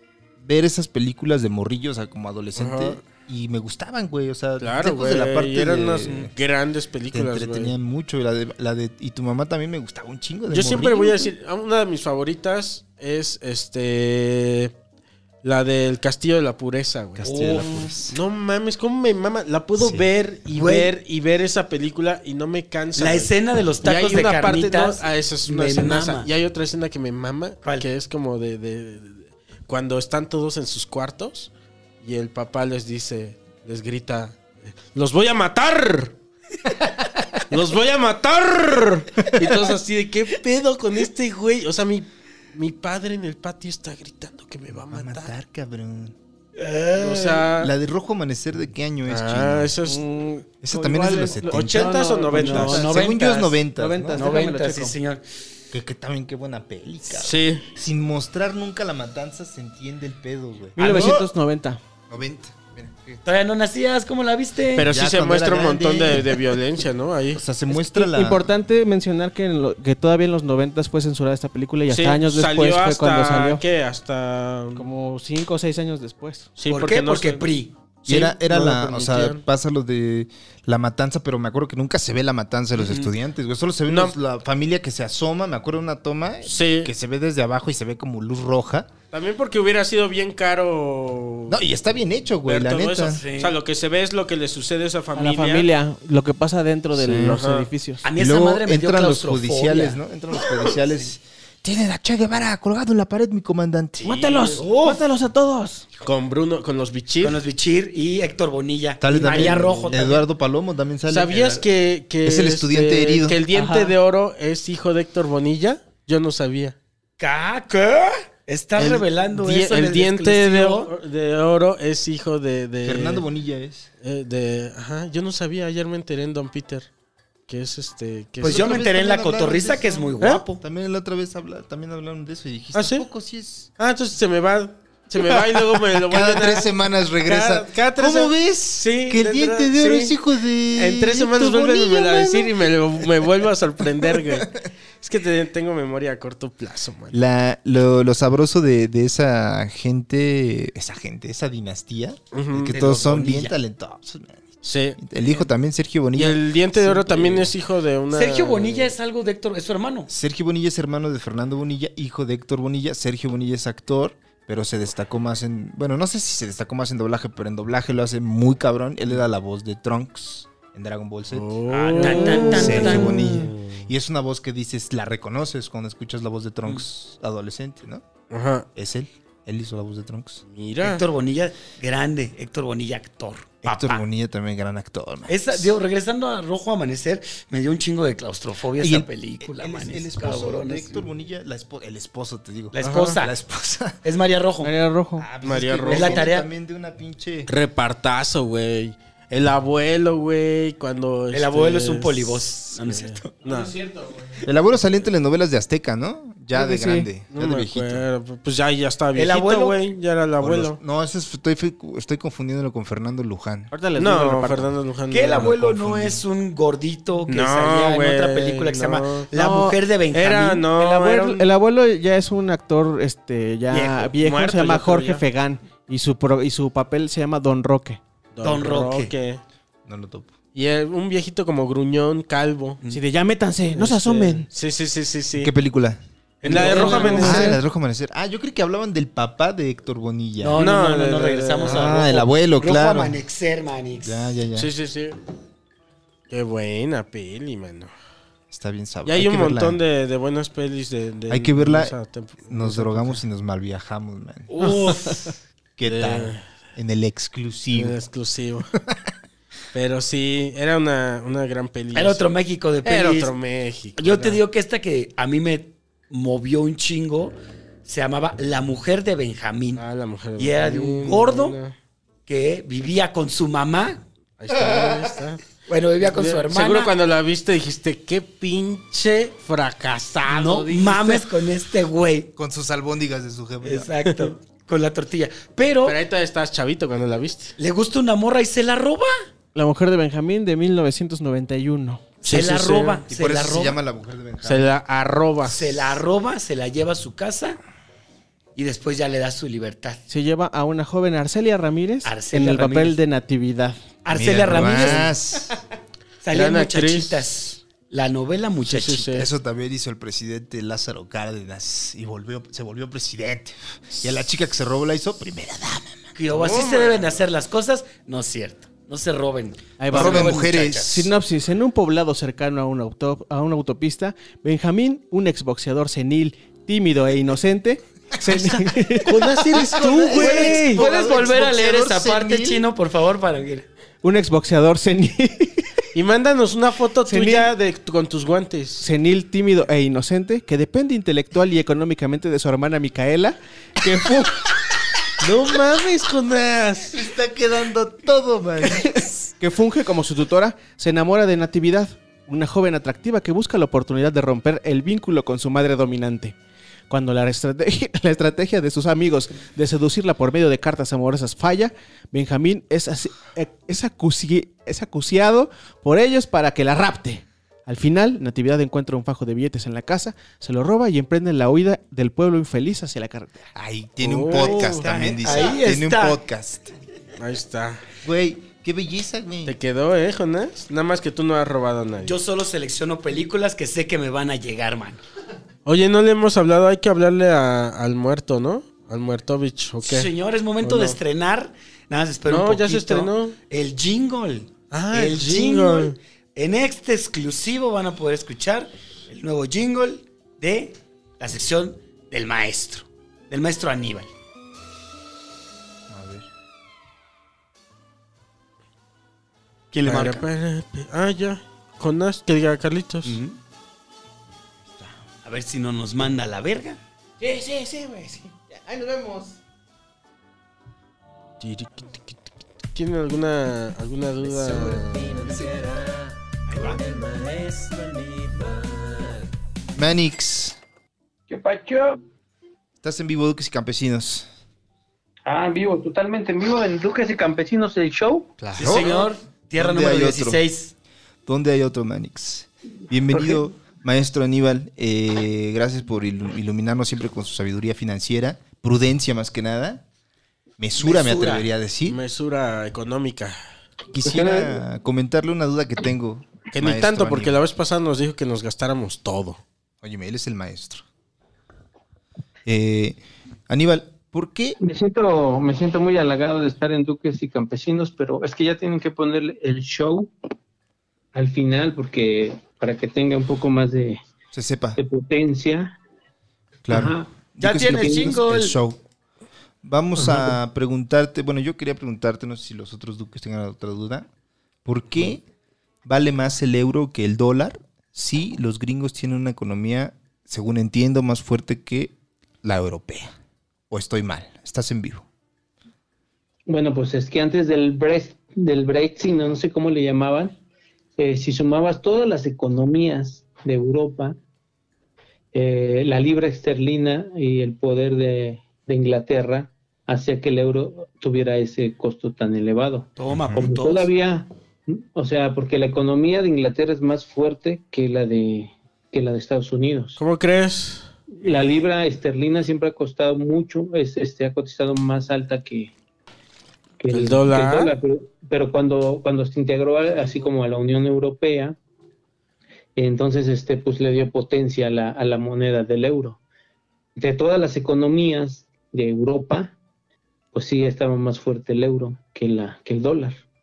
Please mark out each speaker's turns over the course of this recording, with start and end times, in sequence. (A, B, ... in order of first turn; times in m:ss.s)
0:00.4-0:06.3 A
0:02.6-0:03.0 B
0:04.6-0:07.7 B
0:07.1-0:11.3 A
0:10.5-0:14.7 B
0:15.4-0:17.2 B
0:17.2-0:18.2 A
0:17.2-0:17.9 C
0:18.1-0:23.3 B
0:19.8-0:20.1 A
0:20.5-0:20.9 C
0:23.0-0:26.3 C
0:23.8-0:36.2 B
0:37.5-0:45.3 B
0:39.2-0:39.6 A
0:44.9-0:46.1 A
0:46.6-0:47.5 C
0:47.0-0:47.7 B
0:47.6-0:49.8 A
0:49.1-0:50.0 B
0:49.9-0:53.2 D
0:50.6-0:54.3 A
0:51.4-0:52.9 B
0:52.4-0:53.6 C
0:53.7-0:55.0 D
0:54.1-0:55.2 C
0:55.7-1:01.2 A
0:57.1-0:57.7 B
1:00.8-1:01.8 D
1:00.8-1:01.2 C
1:02.1-1:03.2 A
1:03.2-1:04.9 C
1:04.7-1:07.4 B
1:04.8-1:06.4 A
1:07.4-1:08.5 A
1:07.7-1:13.6 D
1:11.9-1:14.9 B
1:14.8-1:16.5 D
1:16.6-1:17.5 B
1:16.7-1:17.7 C
1:18.0-1:19.4 B
1:18.1-1:28.9 A
1:22.8-1:23.1 C
1:23.9-1:24.2 B
1:26.4-1:26.9 B
1:29.1-1:31.6 B
1:31.5-1:33.2 A
1:32.4-1:35.7 B
1:33.1-1:33.6 C
1:35.2-1:38.0 D
1:36.9-1:37.4 A
1:37.3-1:37.7 B
1:38.0-1:40.0 C
1:38.2-1:44.3 A
1:44.0-1:44.6 B
1:44.0-1:45.9 D
1:44.6-1:45.0 C
1:46.0-1:47.4 B
1:47.2-1:50.2 C
1:49.0-1:51.6 A
1:51.1-1:56.8 B
1:52.2-1:53.4 A
1:53.5-1:53.9 D
1:57.2-2:00.9 C
1:58.8-2:03.2 B
2:02.8-2:03.9 A
2:04.0-2:06.9 B
2:07.5-2:08.8 B
2:08.4-2:13.7 A
2:08.4-2:10.6 C
2:12.7-2:13.1 B
2:13.8-2:16.7 B
2:16.0-2:23.0 A
2:17.2-2:20.2 B
2:20.8-2:27.2 B
2:24.0-2:24.6 A
2:27.1-2:37.5 A
2:32.3-2:33.1 B
2:32.8-2:33.6 C
2:34.6-2:35.4 B
2:36.1-2:39.0 B
2:38.1-2:40.1 C
2:40.1-2:51.5 A
2:51.3-2:53.8 B
2:51.7-2:53.4 C
2:52.3-2:58.0 A
2:58.3-2:58.7 B
2:58.7-3:00.4 A
3:00.5-3:01.0 B
3:00.8-3:04.0 C
3:03.6-3:05.7 A
3:05.3-3:11.1 C
3:08.8-3:14.0 A
3:12.7-3:13.4 C
3:12.8-3:13.2 B
3:14.0-3:14.7 C
3:14.6-3:15.3 D
3:15.2-3:17.5 A
3:15.4-3:16.2 B
3:15.9-3:16.5 C
3:17.5-3:23.7 B
3:21.3-3:23.4 C
3:23.4-3:24.3 D
3:24.4-3:28.1 A
3:26.5-3:27.1 D
3:27.3-3:30.8 B
3:29.1-3:29.8 C
3:30.4-3:33.7 A
3:33.7-3:34.7 D
3:34.0-3:35.6 B
3:35.1-3:40.7 C
3:35.4-3:36.2 A
3:37.3-3:39.3 B
3:39.3-3:39.8 D
3:40.1-3:41.5 B
3:40.8-3:48.0 D
3:43.7-3:44.1 C
3:44.2-3:45.2 B
3:48.4-3:49.4 B
3:48.4-3:49.1 C
3:49.9-3:50.3 A
3:50.5-3:52.8 B
3:52.9-3:54.5 D
3:53.7-3:55.5 B
3:55.4-3:56.0 A
3:56.4-3:57.5 C
3:56.4-3:57.6 B
3:56.5-3:57.6 D
3:57.2-4:00.6 A
4:00.4-4:04.4 C
4:00.6-4:02.0 B
4:01.6-4:03.2 A
4:04.0-4:04.7 A
4:04.6-4:05.2 B
4:06.3-4:07.9 B
4:08.5-4:09.8 A
4:09.1-4:13.2 B
4:11.3-4:11.9 A
4:12.5-4:14.5 A
4:14.5-4:15.3 C
4:15.8-4:18.0 A
4:15.8-4:16.4 B
4:17.7-4:18.7 B
4:18.9-4:19.1 A
4:19.7-4:22.2 B
4:21.9-4:23.3 C
4:22.8-4:24.4 B
4:24.0-4:29.8 C
4:29.8-4:31.8 B
4:30.4-4:31.6 C
4:32.3-4:34.0 C
4:34.4-4:35.4 B
4:35.6-4:36.9 C
4:36.0-4:41.2 B
4:40.3-4:42.3 C
4:42.4-4:43.9 A
4:43.6-4:46.0 C
4:44.1-4:44.3 B
4:45.8-4:47.6 B
4:47.6-4:49.1 C
4:49.5-4:52.1 D
4:52.2-4:53.8 C
4:52.2-4:53.0 B
4:53.1-4:54.7 A
4:54.4-4:55.7 B
4:55.4-4:57.6 C
4:58.6-5:00.0 C
5:00.1-5:03.8 D
5:02.0-5:03.0 C
5:04.0-5:05.1 C
5:04.1-5:05.6 A
5:06.2-5:09.3 C
5:06.3-5:07.2 B
5:08.7-5:09.3 B
5:09.1-5:16.1 A
5:16.1-5:21.1 C
5:16.3-5:17.2 B
5:19.8-5:30.8 D
5:19.9-5:21.1 A
5:28.2-5:28.6 A
5:29.2-5:33.7 C
5:29.2-5:30.7 B
5:29.3-5:32.6 A
5:34.0-5:35.7 D
5:35.9-5:38.9 B
5:37.1-5:37.5 D
5:38.8-5:44.5 D
5:45.2-5:46.9 B
5:46.9-5:49.3 A
5:49.0-5:56.4 D
5:56.9-6:13.5 D
6:13.5-6:16.7 A
6:14.0-6:14.8 B
6:14.3-6:16.2 C
6:17.2-6:17.8 B
6:18.0-6:19.6 A
6:19.4-6:22.1 B
6:22.0-6:25.0 C
6:25.6-6:30.1 B
6:29.8-6:44.1 C
6:30.6-6:31.0 B
6:32.2-6:33.4 B
6:34.7-6:36.0 B
6:45.9-6:46.3 A
6:49.7-6:50.2 C
6:49.9-6:53.2 B
6:53.0-6:53.4 C
6:55.2-6:56.8 C
6:57.2-6:59.4 D
7:01.4-7:02.2 B
7:02.7-7:05.3 B
7:04.2-7:09.3 D
7:06.5-7:06.8 C
7:09.7-7:10.6 A
7:11.3-7:12.0 E
7:12.8-7:14.3 A
7:15.2-7:18.4 E
7:18.4-7:18.9 A
7:18.6-7:20.7 C
7:18.6-7:18.9 B
7:19.6-7:20.4 A
7:21.2-7:29.8 A
7:30.6-7:32.0 A
7:30.8-7:31.5 C
7:31.9-7:33.4 B
7:33.9-7:37.4 A
7:34.0-7:34.6 E
7:36.5-7:39.4 B
7:39.8-7:40.8 A
7:42.4-7:44.6 A
7:44.6-7:50.1 E
7:51.1-7:54.0 E
7:54.3-7:54.8 A
7:54.8-7:55.8 E
7:56.6-7:58.8 A
7:56.7-7:58.2 E
7:57.4-7:58.6 C
7:59.6-8:04.1 A
8:00.0-8:00.4 E
8:04.6-8:05.2 A
8:05.8-8:13.1 A
8:13.7-8:15.0 A
8:16.5-8:20.4 E
8:21.0-8:24.2 E
8:25.3-8:40.0 E
8:33.0-8:33.9 C
8:33.1-8:33.5 A
8:40.0-8:41.3 B
8:41.2-8:45.7 E
8:46.8-8:51.6 E
8:46.9-8:47.7 B
8:52.8-8:56.2 E
8:57.0-8:59.6 E
9:00.3-9:03.2 E